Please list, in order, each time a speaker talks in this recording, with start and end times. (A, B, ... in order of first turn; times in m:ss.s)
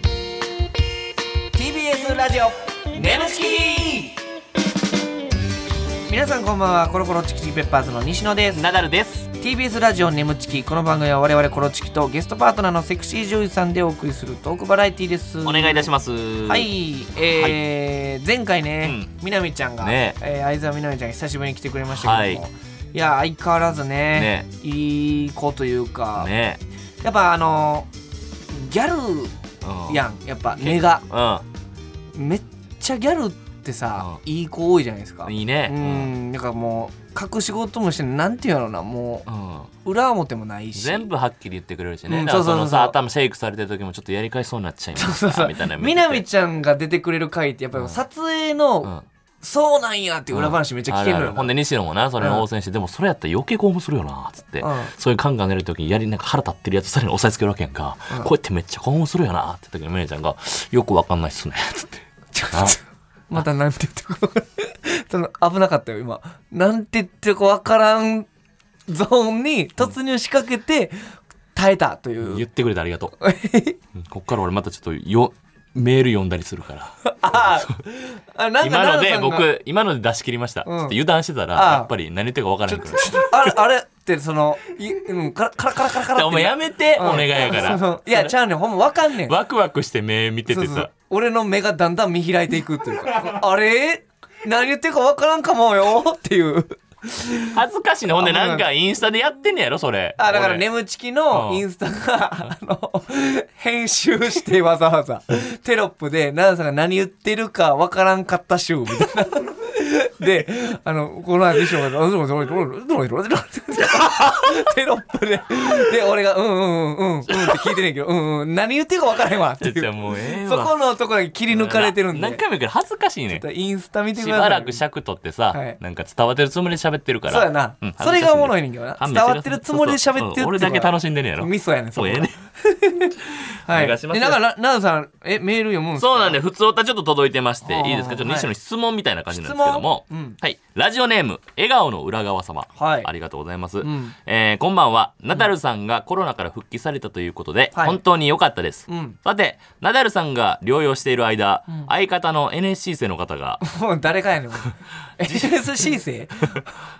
0:01.5-0:04.2 A
0:06.1-0:08.6 A
0:08.5-0:09.3 B
0:09.3-0:15.9 A
0:15.4-0:16.7 B
0:16.4-0:26.3 A
0:18.8-0:19.1 B
0:19.8-0:20.2 B
0:21.9-0:22.4 B
0:24.1-0:24.5 B
0:26.2-0:26.6 B
0:27.0-0:27.9 A
0:28.5-0:29.3 A
0:29.6-0:30.0 B
0:29.9-0:31.0 A
0:30.6-0:31.4 B
0:32.1-0:39.3 A
0:35.2-0:36.1 B
0:39.3-0:39.7 B
0:39.8-0:41.1 A
0:40.7-0:46.2 B
0:42.1-0:43.0 A
0:45.0-0:51.5 A
0:50.3-1:02.8 B
0:52.2-0:52.4 A
0:54.6-0:54.9 A
1:02.3-1:08.3 A
1:08.9-1:10.9 A
1:11.5-1:12.4 A
1:12.2-1:13.1 B
1:13.2-1:13.8 A
1:13.9-1:17.1 B
1:17.0-1:19.5 A
1:18.6-1:23.5 B
1:20.6-1:21.0 A
1:21.5-1:21.9 A
1:22.7-1:29.4 A
1:26.1-1:28.3 B
1:29.2-1:30.9 B
1:30.5-1:37.6 A
1:37.5-1:40.7 B
1:38.2-1:38.7 A
1:40.2-2:02.4 A
1:41.3-1:41.6 B
1:54.2-1:54.5 B
1:57.3-1:57.6 B
1:59.6-2:00.7 B
2:01.5-2:03.4 B
2:03.3-2:04.8 A
2:04.2-2:12.4 B
2:05.5-2:05.8 A
2:07.3-2:16.4 A
2:13.7-2:14.4 B
2:16.0-2:33.6 B
2:17.6-2:18.5 A
2:19.3-2:20.4 A
2:22.8-2:23.1 A
2:23.8-2:24.1 A
2:27.7-2:28.0 A
2:28.9-2:29.2 A
2:33.6-2:36.6 A
2:35.2-2:36.0 B